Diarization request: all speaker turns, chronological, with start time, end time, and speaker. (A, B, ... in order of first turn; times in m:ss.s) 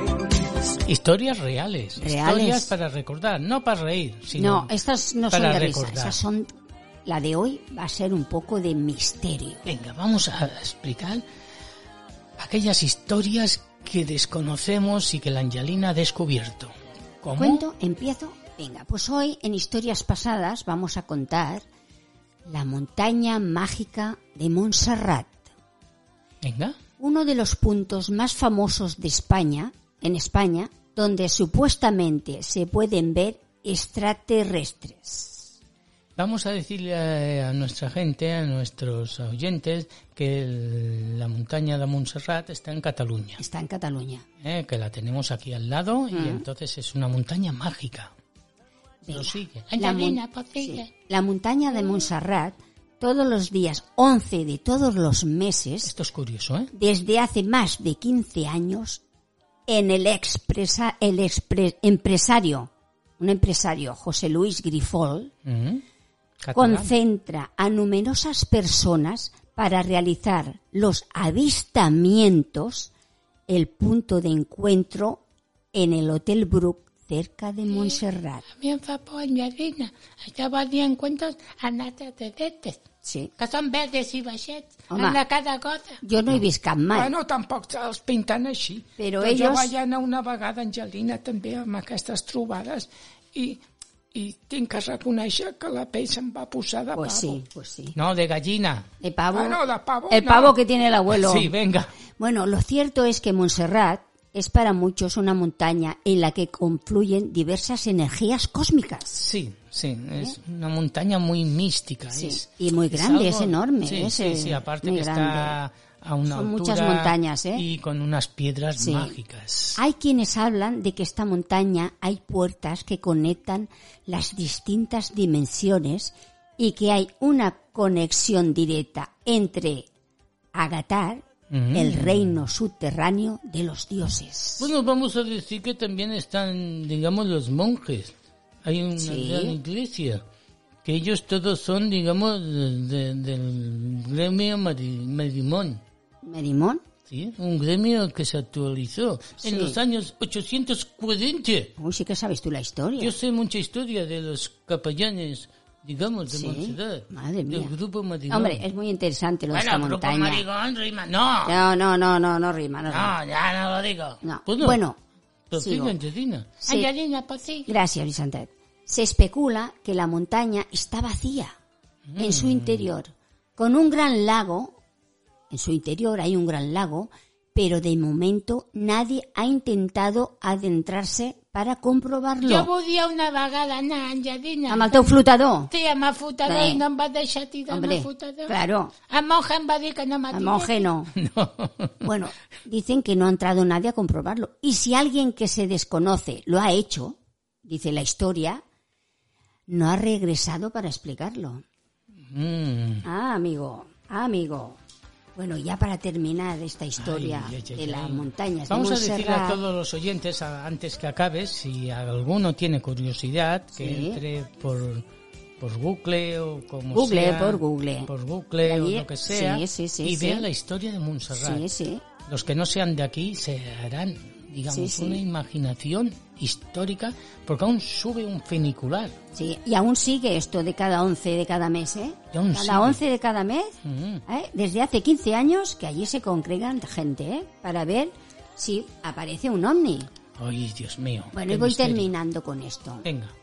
0:00.8-0:04.7 A
0:02.0-0:02.7 B
0:04.4-0:06.5 B
0:05.3-0:06.2 A
0:07.0-0:09.6 B
0:09.6-0:11.2 A
0:12.4-0:17.6 A
0:17.3-0:21.6 B
0:22.5-0:25.4 B
0:26.4-0:26.8 A
0:27.0-0:35.5 B
0:36.2-0:43.4 A
0:43.4-0:44.2 B
0:44.4-0:48.1 A
0:46.1-0:46.4 B
0:49.0-0:55.9 B
0:49.1-0:49.7 A
0:49.7-0:50.9 C
0:55.8-0:56.7 A
0:56.7-0:59.0 B
0:59.7-1:05.3 B
1:05.4-1:05.8 A
1:06.4-1:06.9 A
1:06.5-1:12.9 B
1:13.5-1:15.2 B
1:15.7-1:18.4 B
1:17.7-1:18.0 C
1:18.6-1:22.8 C
1:23.0-1:23.3 B
1:23.4-1:26.0 C
1:24.9-1:25.2 B
1:26.0-1:27.1 B
1:26.9-1:33.6 D
1:29.0-1:29.7 B
1:34.1-1:37.4 D
1:36.9-1:37.9 B
1:37.9-1:38.9 A
1:39.0-1:41.5 B
1:39.3-1:40.5 D
1:41.1-1:41.9 A
1:42.2-1:49.2 B
1:49.2-1:59.8 A
1:52.1-1:55.6 B
1:56.3-1:57.6 B
1:58.8-1:59.1 B
1:59.8-2:09.9 B
2:10.5-2:14.7 B
2:11.5-2:12.4 A
2:14.6-2:20.2 A
2:19.0-2:19.6 B
2:20.8-2:25.8 A
2:26.2-2:26.8 B
2:27.1-2:31.7 A
2:29.4-2:29.8 B
2:31.8-2:33.1 B
2:33.0-2:38.6 A
2:36.3-2:37.7 B
2:38.3-2:40.4 B
2:39.5-2:41.6 E
2:41.4-2:43.2 B
2:42.9-2:44.2 E
2:44.2-2:45.0 B
2:44.5-2:44.8 A
2:45.5-2:46.5 A
2:45.6-2:45.9 B
2:46.6-2:46.9 B
2:46.6-2:47.7 C
2:47.7-2:51.5 B
2:52.1-2:52.8 A
2:52.2-2:54.7 B
2:55.5-3:02.7 B
3:02.4-3:05.1 C
3:04.7-3:05.7 B
3:05.7-3:08.5 C
3:06.4-3:06.8 B
3:07.7-3:08.9 B
3:09.1-3:10.8 C
3:10.3-3:11.1 B
3:11.1-3:12.0 A
3:12.0-3:18.6 B
3:19.7-3:21.6 B
3:22.3-3:23.0 A
3:23.0-3:24.8 B
3:25.4-3:29.6 B
3:27.0-3:35.0 A
3:33.8-3:34.2 B
3:35.6-3:41.7 A
3:36.9-3:38.1 B
3:38.6-3:40.4 B
3:41.4-3:42.0 B
3:42.3-3:49.1 A
3:44.7-3:45.2 B
3:49.3-3:53.7 B
3:52.3-3:53.0 A
3:53.8-3:54.2 A
3:54.3-4:00.1 B
4:00.4-4:02.1 A
4:01.3-4:03.0 B
4:03.0-4:03.3 A